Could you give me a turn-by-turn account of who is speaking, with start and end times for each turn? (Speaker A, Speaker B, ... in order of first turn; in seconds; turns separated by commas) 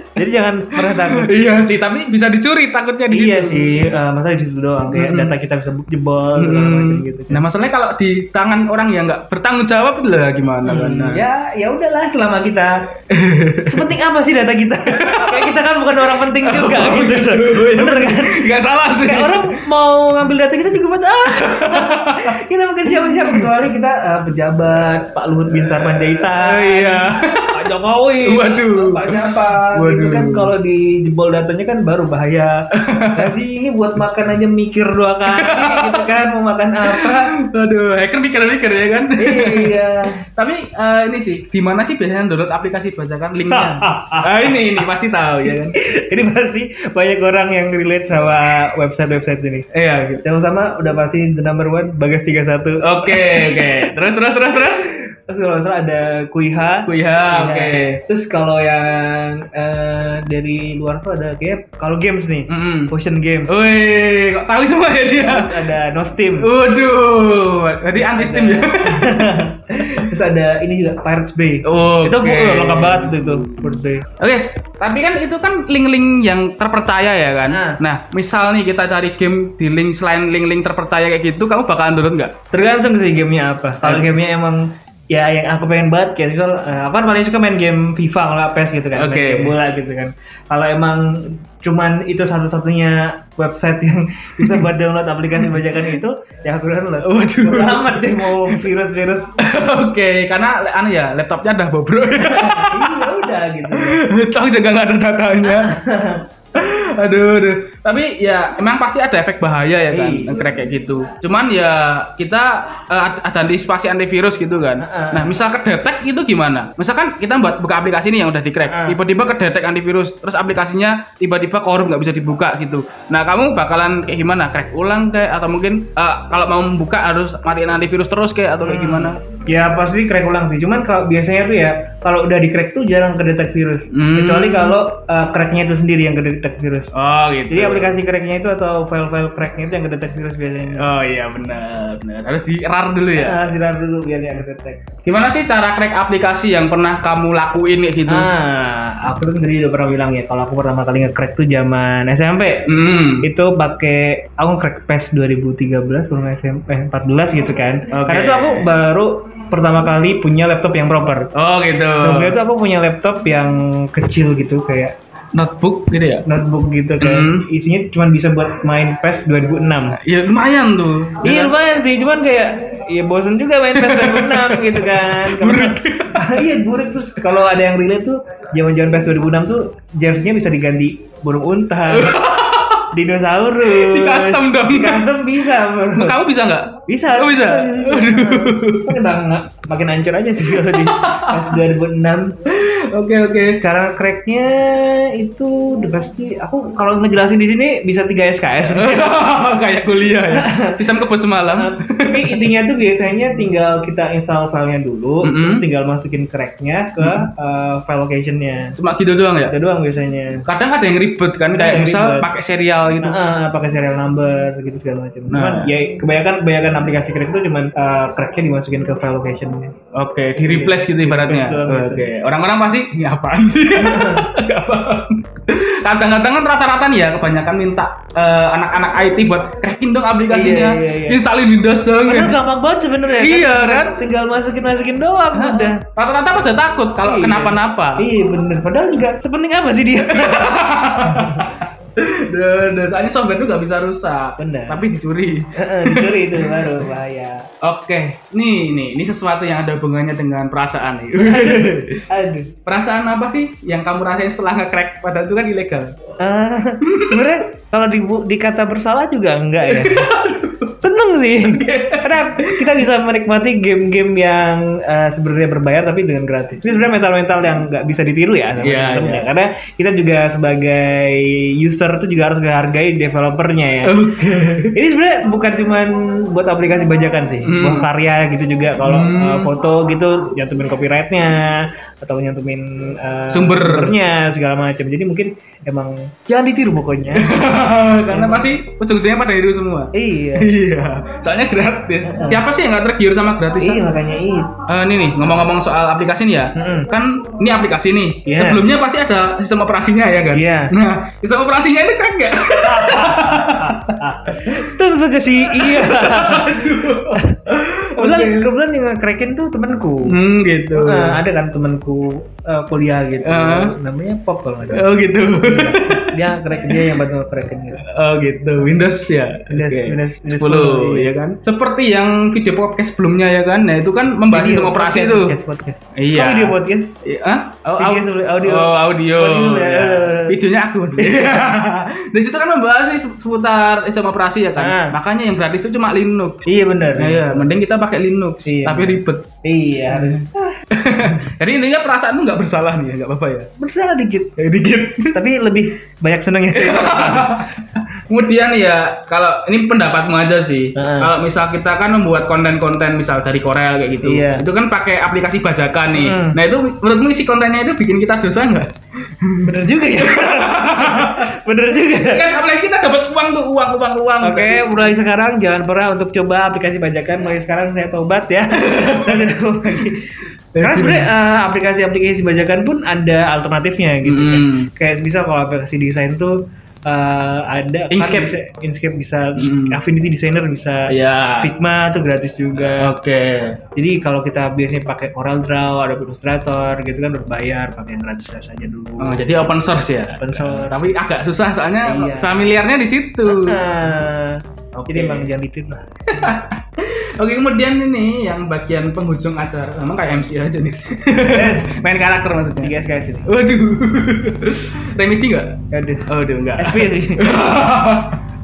Speaker A: 0.2-1.4, Speaker B: 0.8-3.9, Speaker A: 3.1-7.4, Speaker B: 4.8-5.3, Speaker B: 6.3-11.2, Speaker A: 10.6-12.8, Speaker B: 13.1-13.9, Speaker A: 13.6-18.4, Speaker B: 14.9-19.6, Speaker A: 19.0-32.6, Speaker B: 21.2-22.3, Speaker B: 22.9-23.5, Speaker B: 25.5-27.7, Speaker B: 28.2-30.5, Speaker B: 32.7-33.3, Speaker A: 33.1-37.3, Speaker B: 35.3-36.1, Speaker B: 36.9-45.7, Speaker A: 39.2-40.1, Speaker A: 43.5-44.8, Speaker A: 45.7-49.6, Speaker B: 49.7-50.2, Speaker A: 50.2-53.9, Speaker B: 52.8-54.9, Speaker A: 54.5-63.6, Speaker B: 56.9-58.0, Speaker B: 62.5-62.9, Speaker B: 63.5-65.5, Speaker A: 65.2-66.5, Speaker B: 66.4-69.4, Speaker A: 68.0-74.1, Speaker B: 71.6-73.6, Speaker B: 74.2-82.3, Speaker A: 77.5-77.8, Speaker A: 82.5-84.6, Speaker B: 83.8-84.1, Speaker A: 85.1-99.3, Speaker B: 88.9-89.6, Speaker B: 94.4-94.6, Speaker B: 97.0-98.6, Speaker B: 99.4-105.8, Speaker A: 102.1-104.0, Speaker A: 105.4-106.2, Speaker B: 106.5-129.2, Speaker A: 109.9-110.7, Speaker A: 114.8-115.3, Speaker A: 118.7-119.0, Speaker A: 128.6-136.9, Speaker B: 133.9-134.8, Speaker B: 136.9-137.9, Speaker A: 137.5-140.9, Speaker B: 140.7-143.4, Speaker A: 143.2-144.8, Speaker B: 145.0-148.3, Speaker A: 148.1-152.7, Speaker B: 152.7-153.3, Speaker A: 153.2-161.3, Speaker B: 157.9-158.7, Speaker B: 161.3-162.4, Speaker A: 162.0-164.9, Speaker B: 165.3-166.2, Speaker A: 166.2-170.0, Speaker B: 167.0-167.4, Speaker B: 170.0-171.5, Speaker A: 171.2-182.2, Speaker B: 173.7-176.5, Speaker B: 181.9-182.8, Speaker A: 182.9-186.2, Speaker B: 183.7-185.2, Speaker B: 185.9-189.0, Speaker A: 186.8-192.3, Speaker B: 190.5-191.6, Speaker B: 192.5-193.6, Speaker A: 193.6-199.1, Speaker B: 198.6-202.4, Speaker A: 200.3-200.8, Speaker A: 201.5-208.7, Speaker B: 205.2-205.6, Speaker B: 208.8-209.5, Speaker A: 209.5-210.4, Speaker B: 210.5-213.2, Speaker A: 211.5-212.2, Speaker A: 213.0-219.8, Speaker B: 215.3-215.7, Speaker B: 219.9-232.4, Speaker A: 220.3-222.1, Speaker A: 223.8-224.3, Speaker A: 230.3-231.2, Speaker A: 232.1-235.8, Speaker B: 233.2-234.0, Speaker B: 235.3-238.0, Speaker A: 237.0-241.5, Speaker B: 240.0-246.8, Speaker A: 244.4-244.9, Speaker A: 245.6-247.5, Speaker B: 247.6-252.0, Speaker A: 251.2-252.5, Speaker B: 252.7-255.9, Speaker A: 256.2-260.1, Speaker B: 256.8-257.3, Speaker B: 259.6-260.7, Speaker A: 260.8-274.0, Speaker B: 261.4-262.8, Speaker B: 268.6-269.3, Speaker B: 273.8-274.8, Speaker A: 274.7-287.4, Speaker B: 277.4-277.9, Speaker B: 278.8-279.5, Speaker B: 283.3-283.9, Speaker B: 287.1-293.9, Speaker A: 288.1-288.5, Speaker A: 289.9-290.5, Speaker A: 292.0-292.4, Speaker A: 293.6-294.5, Speaker B: 294.7-304.6, Speaker A: 296.5-296.9, Speaker A: 298.2-298.6, Speaker A: 300.3-300.7, Speaker A: 302.6-310.1, Speaker B: 305.6-308.5, Speaker B: 310.1-311.2, Speaker A: 310.7-317.8, Speaker B: 313.2-313.7, Speaker B: 314.7-316.2, Speaker B: 317.8-325.3, Speaker A: 319.5-321.1, Speaker A: 324.3-326.9, Speaker B: 326.0-339.2, Speaker A: 327.8-330.4, Speaker A: 331.0-331.5, Speaker A: 334.6-334.9, Speaker A: 336.4-337.5, Speaker A: 338.4-340.6, Speaker B: 339.9-343.5, Speaker A: 343.6-344.4, Speaker B: 344.4-345.2, Speaker A: 345.1-347.5, Speaker B: 346.5-361.3, Speaker A: 350.8-351.1, Speaker A: 354.0-354.4, Speaker A: 355.9-356.4, Speaker A: 359.4-362.3, Speaker B: 361.9-364.9, Speaker A: 364.2-376.3, Speaker B: 368.6-369.8, Speaker B: 370.6-371.1, Speaker B: 374.0-374.7, Speaker A: 376.9-382.9, Speaker B: 377.9-378.3, Speaker B: 379.4-379.8, Speaker B: 380.9-381.5, Speaker B: 382.6-383.6, Speaker A: 383.8-389.5, Speaker B: 389.0-393.6, Speaker A: 390.1-390.9, Speaker A: 391.8-392.5, Speaker A: 393.3-396.3, Speaker B: 394.8-395.3, Speaker B: 396.1-402.7, Speaker A: 401.2-401.8, Speaker A: 402.6-403.3, Speaker B: 403.3-408.2, Speaker A: 405.7-407.3